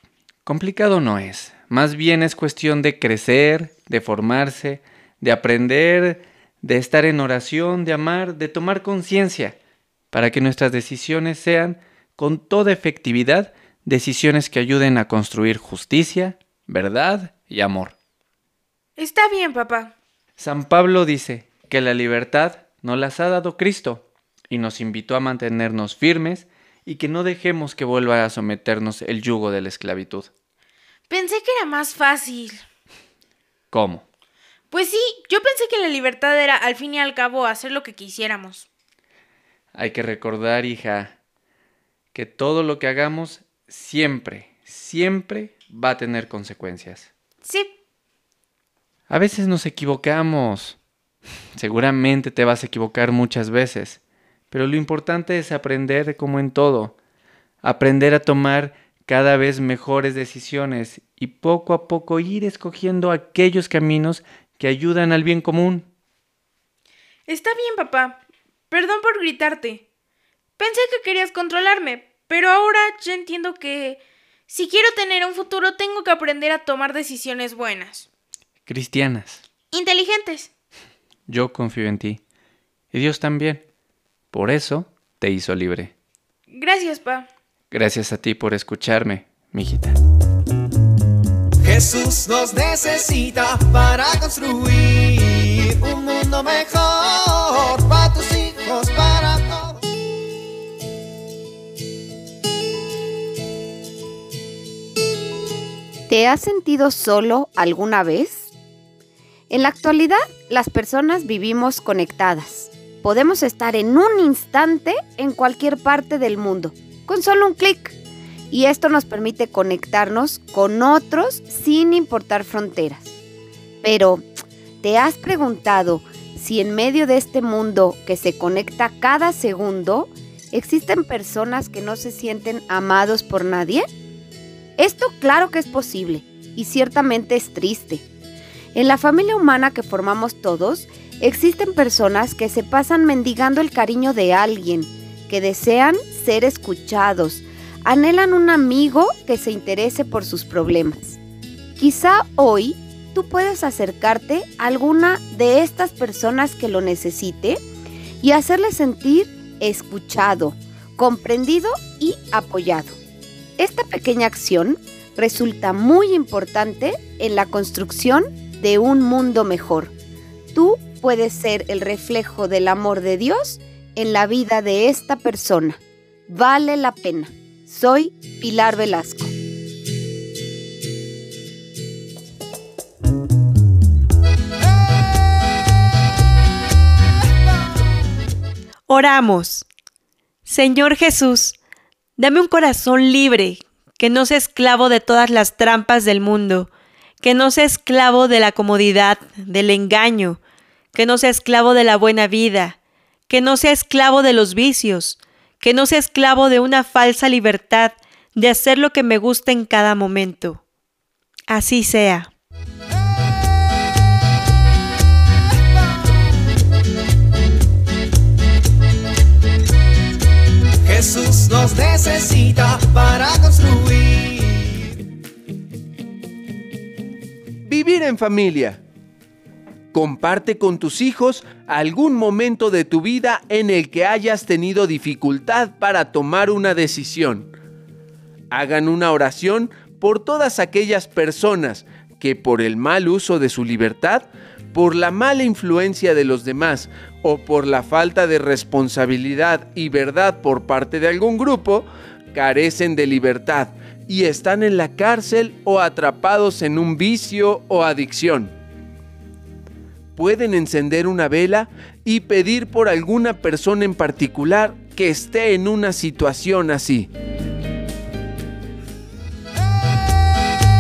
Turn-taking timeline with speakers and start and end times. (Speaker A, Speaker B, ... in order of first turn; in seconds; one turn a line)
Speaker A: 0.5-9.6
Speaker A: 10.1-17.9
Speaker B: 19.0-19.9
Speaker A: 20.4-30.3
Speaker B: 31.1-32.6
Speaker A: 33.7-34.1
Speaker B: 34.7-38.7
Speaker A: 39.8-41.2
Speaker A: 42.1-47.1
Speaker B: 47.4-47.7
Speaker A: 49.1-50.8
Speaker A: 51.6-54.0
Speaker A: 54.5-57.0
Speaker A: 57.6-65.9
Speaker B: 67.3-69.8
Speaker B: 70.6-78.1
Speaker A: 78.7-79.4
Speaker B: 79.7-80.5
Speaker A: 81.3-82.2
Speaker A: 82.9-83.6
Speaker A: 84.3-85.9
Speaker B: 86.5-87.3
Speaker A: 87.7-90.0
Speaker C: 91.6-99.8
Speaker D: 106.1-108.5
Speaker D: 109.5-118.0
Speaker D: 118.5-123.1
Speaker D: 123.8-124.3
Speaker D: 124.8-133.9
Speaker D: 134.8-138.0
Speaker D: 138.7-151.2
Speaker D: 151.8-157.6
Speaker D: 158.2-163.0
Speaker D: 163.6-169.9
Speaker D: 170.5-179.3
Speaker E: 188.9-189.7
Speaker E: 190.4-191.6
Speaker E: 192.2-196.7
Speaker E: 197.2-200.4
Speaker E: 200.9-202.8
Speaker E: 203.3-210.6
Speaker E: 211.5-212.3
Speaker C: 220.8-224.9
Speaker F: 227.7-228.8
Speaker F: 229.9-237.5
Speaker F: 238.5-258.5
Speaker F: 260.2-267.1